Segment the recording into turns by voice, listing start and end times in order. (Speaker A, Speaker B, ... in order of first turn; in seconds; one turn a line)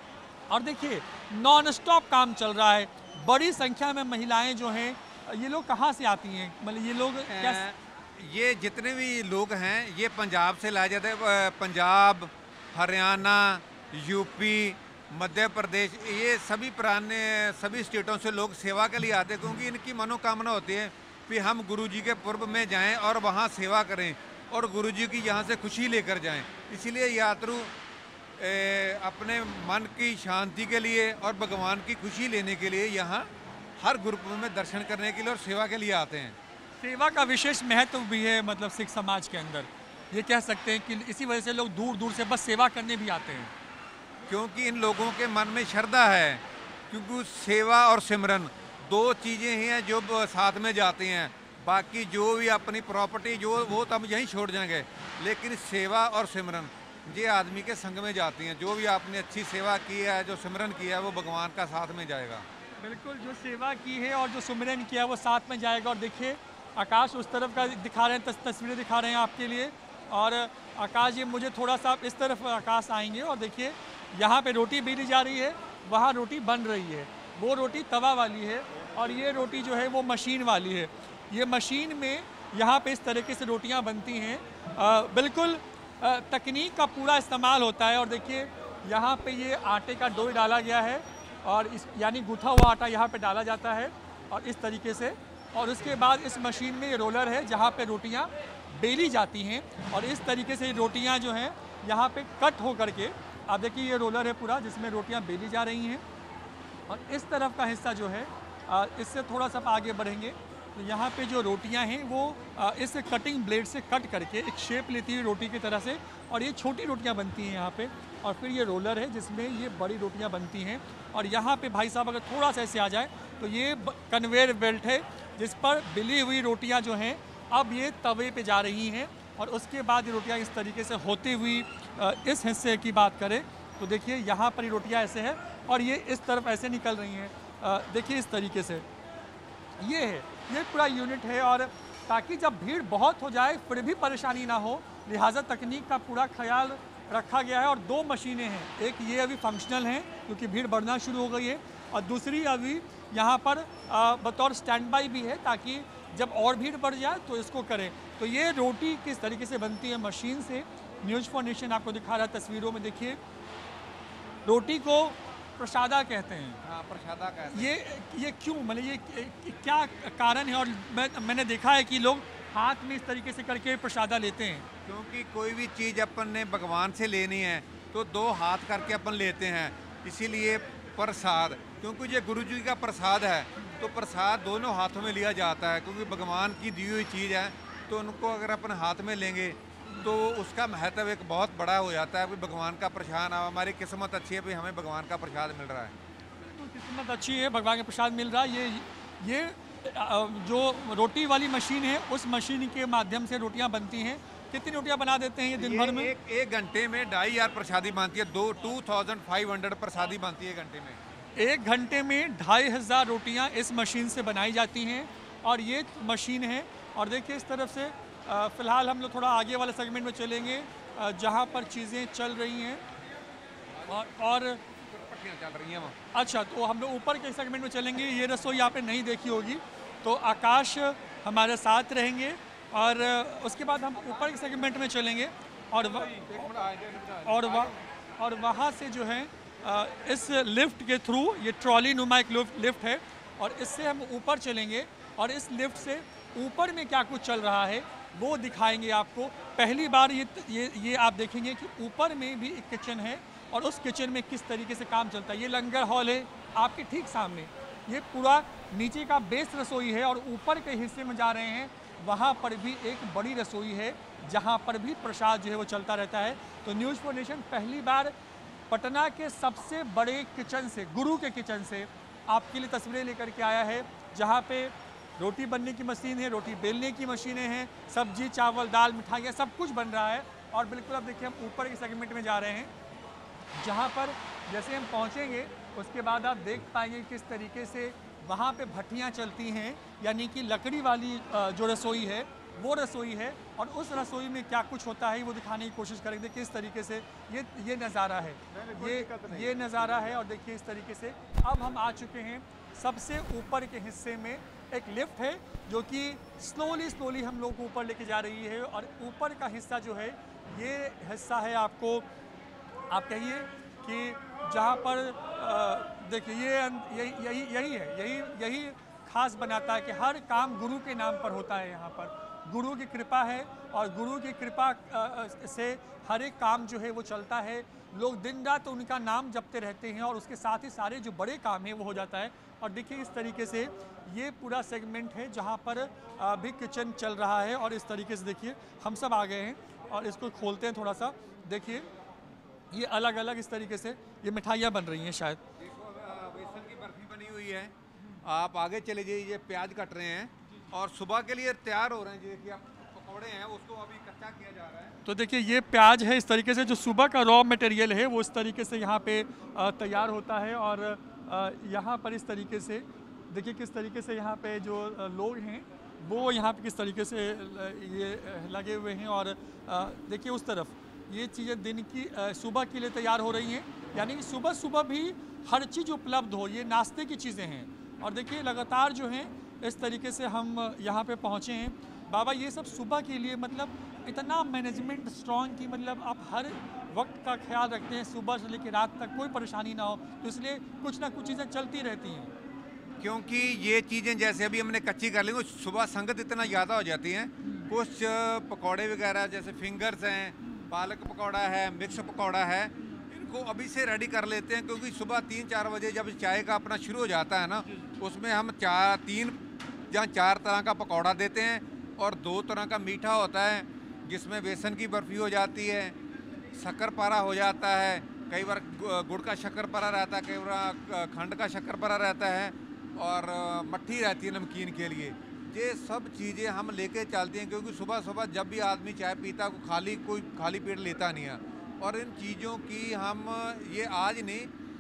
Speaker A: 0.5-7.6
Speaker B: 7.3-27.7
Speaker B: 28.4-36.4
Speaker A: 36.8-43.5
Speaker B: 44.3-62.5
Speaker A: 62.8-106.0
Speaker A: 106.9-138.8
Speaker A: 139.8-163.2
Speaker A: 164.4-166.6
Speaker B: 166.6-167.7
Speaker A: 167.5-174.7
Speaker B: 174.9-196.0
Speaker A: 196.4-206.1
Speaker B: 205.6-211.0
Speaker A: 211.4-222.8
Speaker A: 223.9-224.6
Speaker B: 224.7-226.0
Speaker A: 226.1-236.3
Speaker B: 236.0-237.8
Speaker A: 237.2-268.1
Speaker A: 268.7-282.7
Speaker A: 283.6-312.1
Speaker B: 298.5-300.1
Speaker A: 312.9-341.9
Speaker A: 342.7-345.4
Speaker B: 345.6-355.0
Speaker A: 355.1-392.3
Speaker B: 393.0-409.4
Speaker B: 409.9-416.0
Speaker B: 416.6-434.5